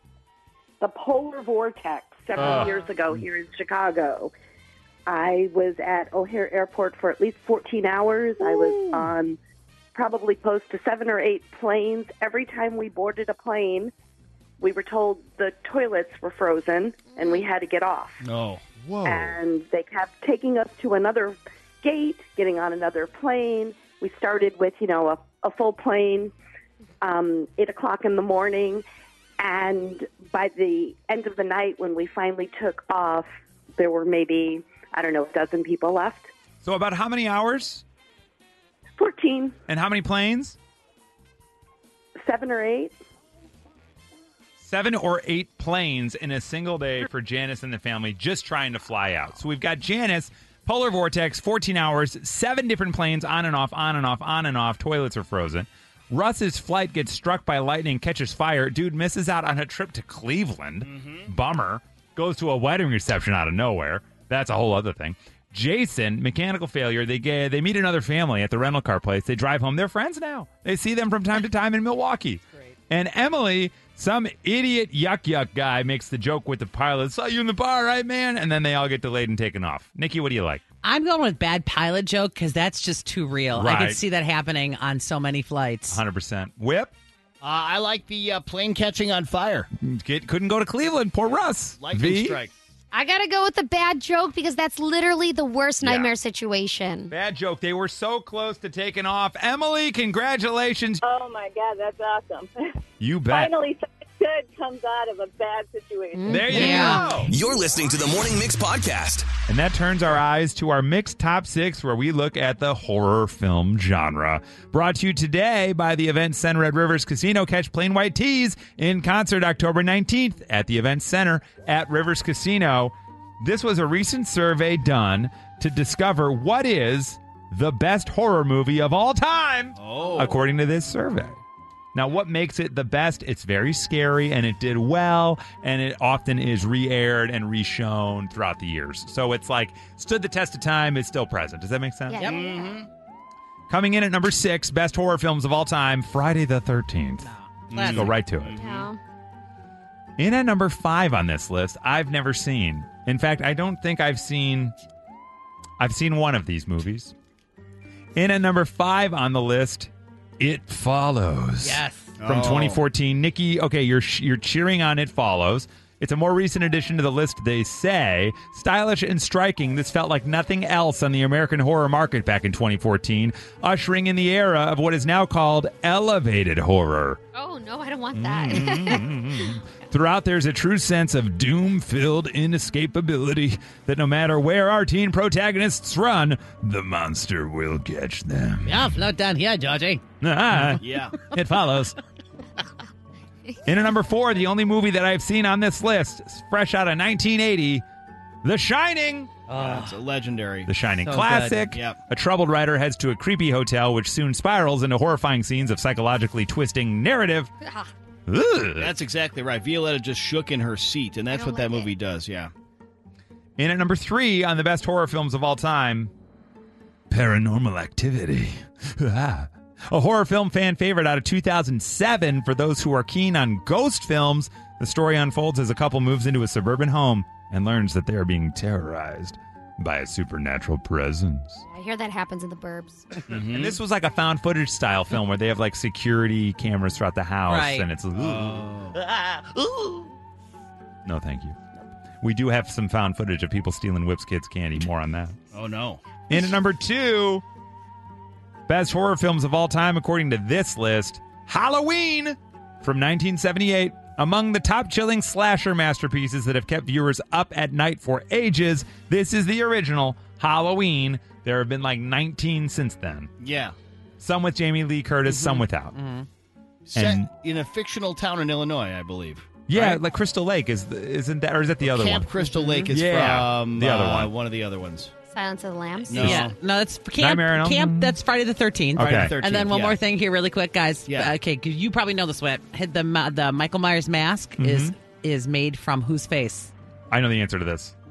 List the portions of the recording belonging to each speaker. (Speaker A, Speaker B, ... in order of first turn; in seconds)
Speaker A: 0.8-4.3, 5.1-9.4, 9.9-13.9, 14.6-18.2, 19.1-26.3, 27.0-28.8, 29.4-33.3, 33.8-36.3, 39.0-39.5, 42.2-42.9
Speaker B: 2.4-2.7, 18.8-19.4, 36.6-37.8, 39.7-40.6, 44.6-80.6, 83.5-84.0, 85.9-86.9, 89.8-92.4, 95.8-96.1, 97.1-101.0, 103.0-103.5, 106.3-107.3, 109.5-131.4, 131.9-142.2, 143.7-148.5, 150.2-154.7, 155.8-157.1, 158.2-177.2, 178.1-188.9, 190.2-192.0, 193.7-197.8, 198.4-199.3, 200.7-207.5, 208.3-208.9, 213.6-216.1, 217.1-231.6, 233.3-238.7, 241.1-241.6, 242.2-245.4, 246.3-247.4, 248.7-263.3, 264.2-266.0, 266.9-267.3, 269.7-272.3, 272.9-274.3, 276.2-276.4, 277.2-278.2, 279.0-279.3, 284.6-284.9, 287.1-287.9
Speaker C: 17.1-17.4, 92.9-97.1, 106.1-107.1, 142.1-142.7, 148.6-149.0, 177.3-179.4, 207.6-207.9, 211.3-211.9, 231.7-233.1, 275.3-276.4
Speaker D: 18.2-18.6, 60.8-61.3, 87.4-89.7, 91.8-92.5, 129.8-130.4, 142.2-142.9, 147.7-148.9, 162.2-162.8, 190.8-191.2, 199.5-200.7, 201.7-202.0, 208.8-212.5, 233.3-233.8, 238.2-239.0, 245.5-246.0, 263.4-263.8, 266.9-270.0, 271.8-275.1, 276.1-276.6, 279.0-280.0, 281.1-281.4
Speaker E: 80.8-86.0, 106.5-107.3, 142.2-142.5, 147.2-148.1, 161.6-162.2, 188.7-190.1, 199.5-200.0, 201.0-201.7, 237.5-237.9, 265.3-266.3, 272.4-272.9, 276.1-286.7
Speaker F: 101.0-102.8, 103.3-106.4
Speaker G: 107.3-109.3